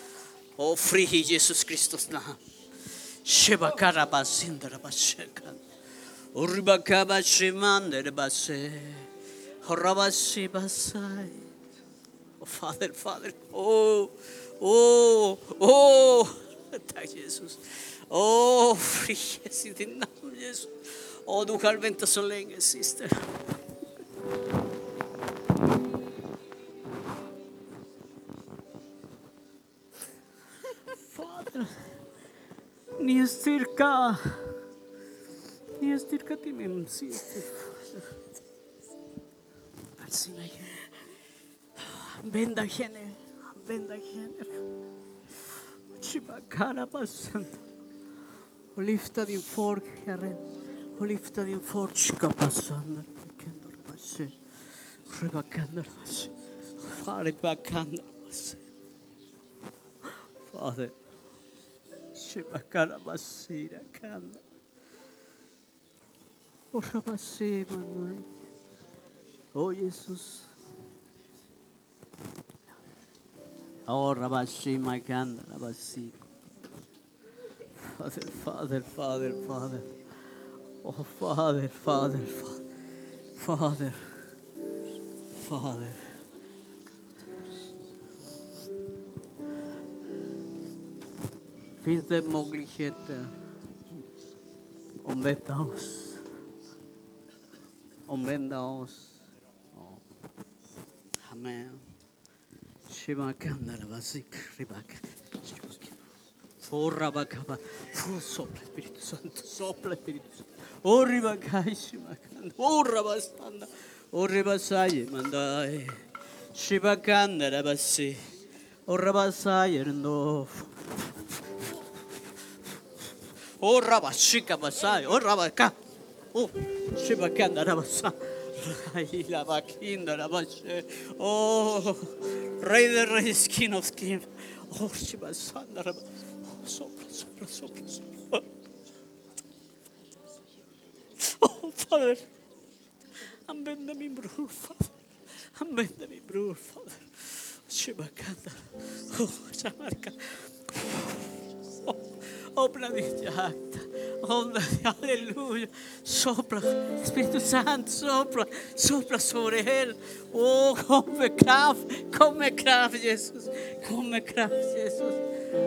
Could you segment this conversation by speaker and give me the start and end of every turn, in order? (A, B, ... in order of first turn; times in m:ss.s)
0:00.6-0:02.4 A
0:03.2-0:05.6 A
0:06.3-0:09.1 A
0:09.6-0:11.4 A
0:12.4-0:23.3 A
0:31.0-0:31.8 A
0:33.0-0:34.6 A
0:35.8-0:38.1 A
0:40.0-0:41.0 A
0:41.8-0:44.6 A
0:46.0-0:47.6 A
0:48.8-0:50.4 A
0:51.0-0:54.4 A
0:55.1-0:58.6 A
1:00.4-1:01.0 A
1:02.1-1:04.4 A
1:06.7-1:08.3 A
1:09.6-1:10.5 A
1:13.9-1:16.2 A
1:17.8-1:19.9 A
1:20.8-1:22.7 A
1:23.4-1:24.2 A
1:25.3-1:26.2 A
1:31.8-1:33.4 A
1:35.0-1:36.2 A
1:38.1-1:40.0 A
1:41.2-1:41.8 A
1:42.9-1:46.0 A
1:46.6-1:58.3 A
1:58.9-2:00.8 A
2:03.6-2:05.8 A
2:06.3-2:18.5 A
2:21.2-2:22.3 A
2:23.3-2:45.2 A